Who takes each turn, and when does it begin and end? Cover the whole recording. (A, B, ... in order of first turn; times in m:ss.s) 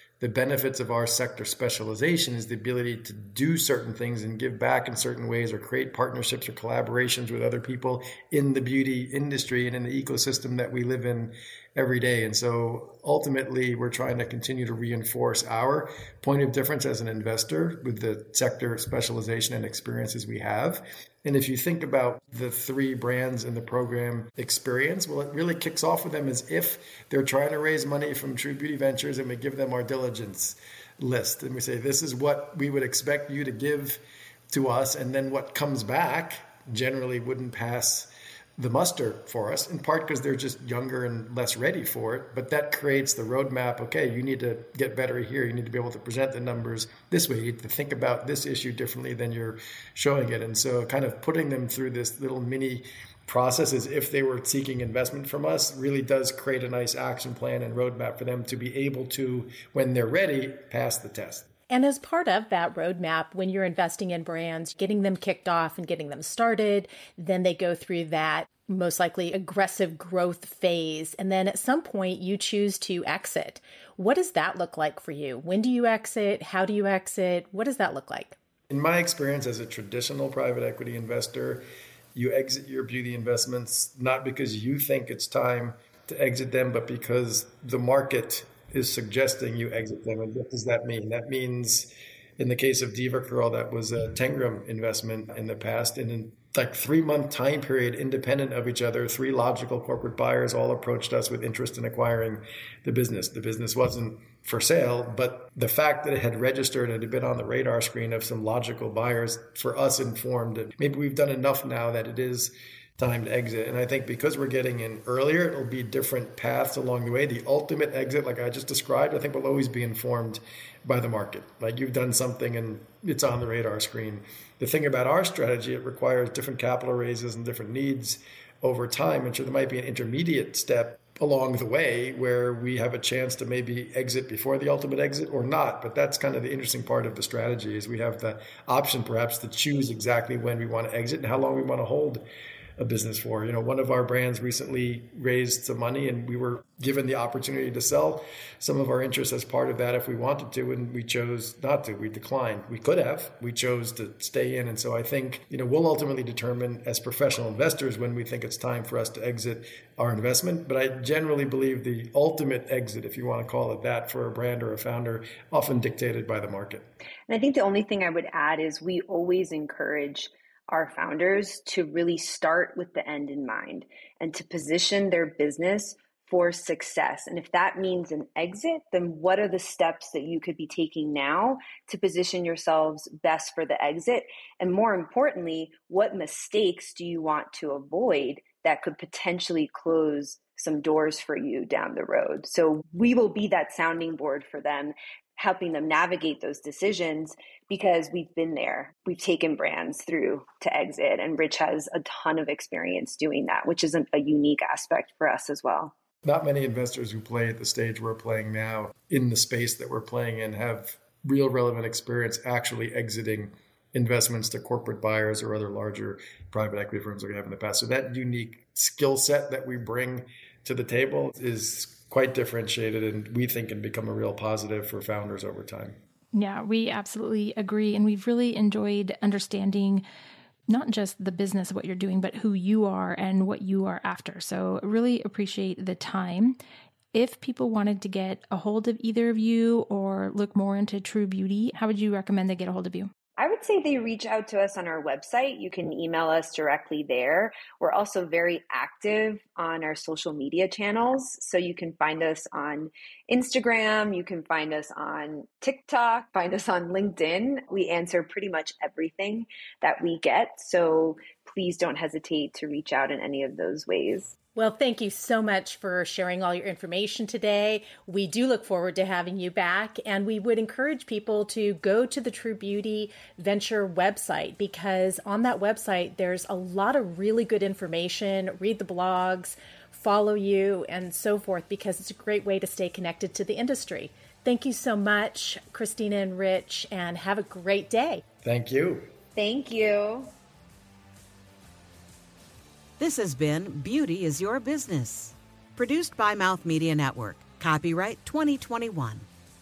0:00.2-1:01.5 A
1:01.7-1:18.4 B
1:18.7-1:21.6 A
1:22.2-2:22.2 A
2:22.8-2:46.9 A
2:47.3-3:25.9 C
3:26.2-3:46.0 A
3:46.3-3:50.0 D
3:50.7-3:56.6 D
3:57.1-4:03.1 D
4:03.4-4:24.3 C
4:24.6-4:48.2 B
4:48.4-4:49.1 A
4:49.4-4:50.3 C
4:53.0-4:59.2 E